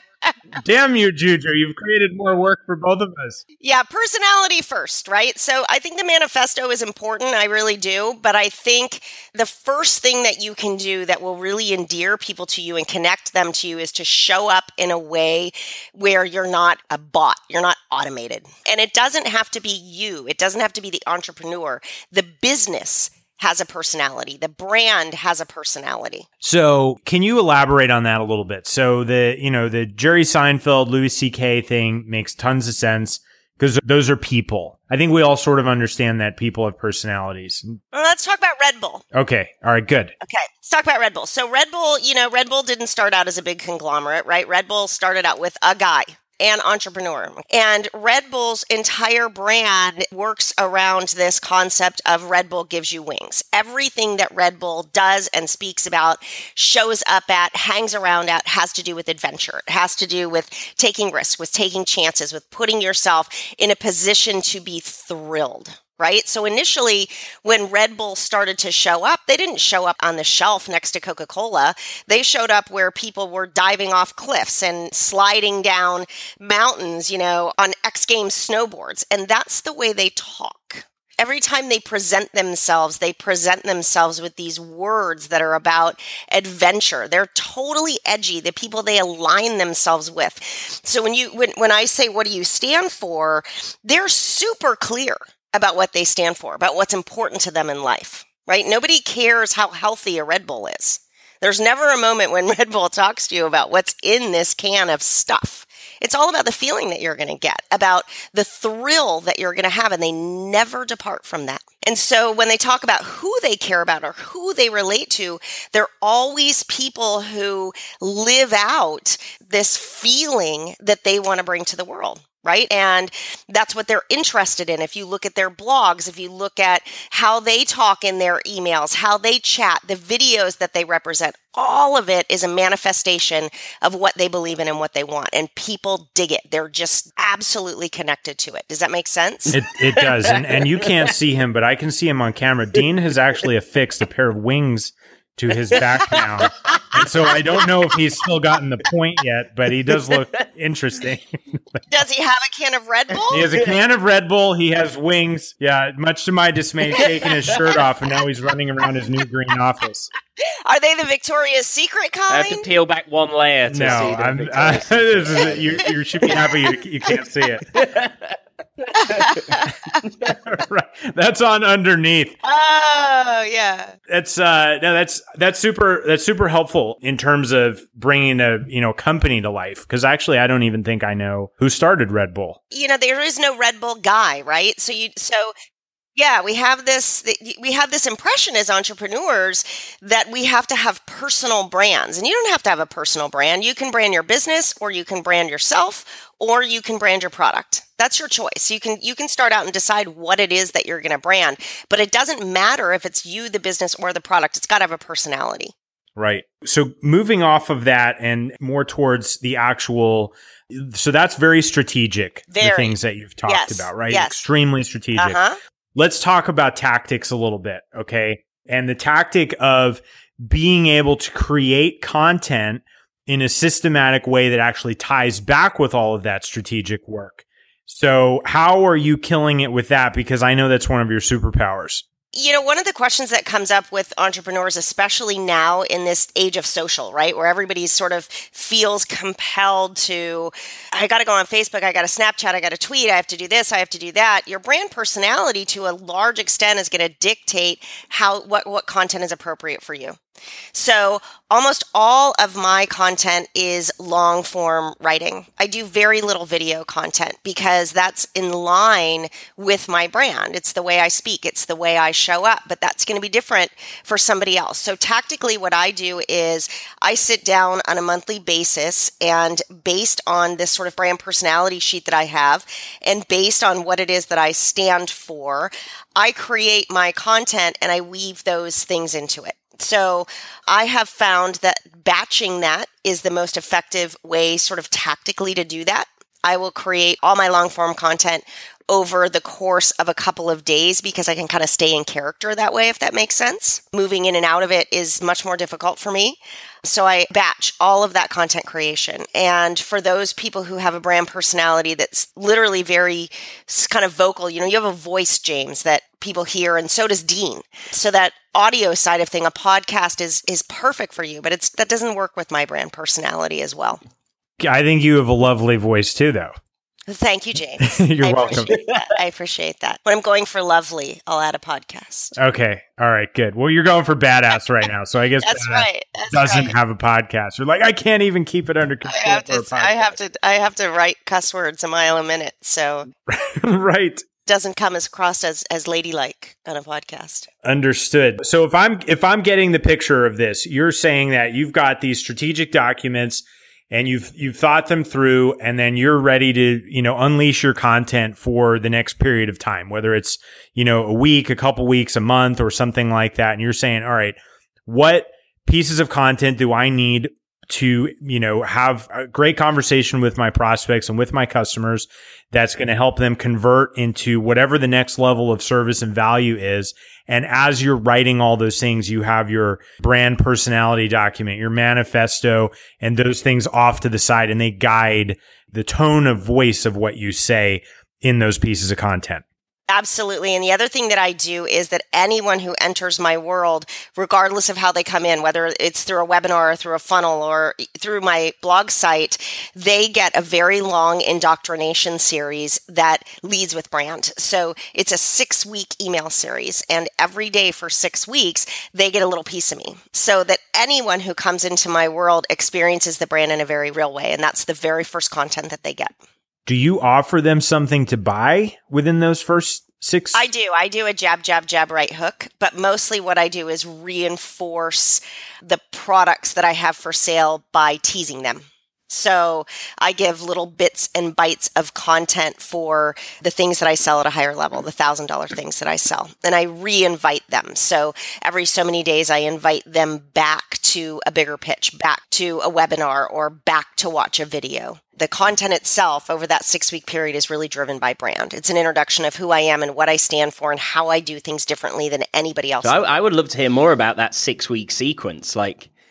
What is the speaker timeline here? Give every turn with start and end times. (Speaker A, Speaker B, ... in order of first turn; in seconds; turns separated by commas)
Speaker A: 0.6-3.4, Speaker B: 3.6-26.3, Speaker A: 26.4-37.8, Speaker B: 37.9-39.0, Speaker A: 39.1-40.1, Speaker B: 40.2-139.5, Speaker A: 139.5-151.3, Speaker C: 139.9-140.9, Speaker C: 145.7-147.1, Speaker B: 151.9-153.5, Speaker A: 153.3-160.1, Speaker B: 160.7-162.7, Speaker C: 162.3-166.5, Speaker A: 163.7-167.8, Speaker C: 167.7-170.4, Speaker B: 169.0-169.7, Speaker A: 169.7-172.3, Speaker B: 172.4-173.9, Speaker A: 174.1-182.6, Speaker B: 182.7-185.5, Speaker B: 186.2-205.7, Speaker A: 206.2-215.4, Speaker B: 212.5-214.4, Speaker B: 215.2-215.6, Speaker A: 215.9-232.0, Speaker B: 232.3-250.2, Speaker B: 250.7-314.0, Speaker A: 314.6-316.5, Speaker B: 317.1-322.3, Speaker A: 317.8-318.7, Speaker A: 322.4-330.2, Speaker B: 325.4-326.7, Speaker B: 329.1-333.1, Speaker A: 333.3-334.2, Speaker B: 334.4-337.5, Speaker A: 337.6-379.4, Speaker B: 379.9-406.1, Speaker A: 406.7-410.4, Speaker B: 410.3-443.1, Speaker C: 442.8-445.9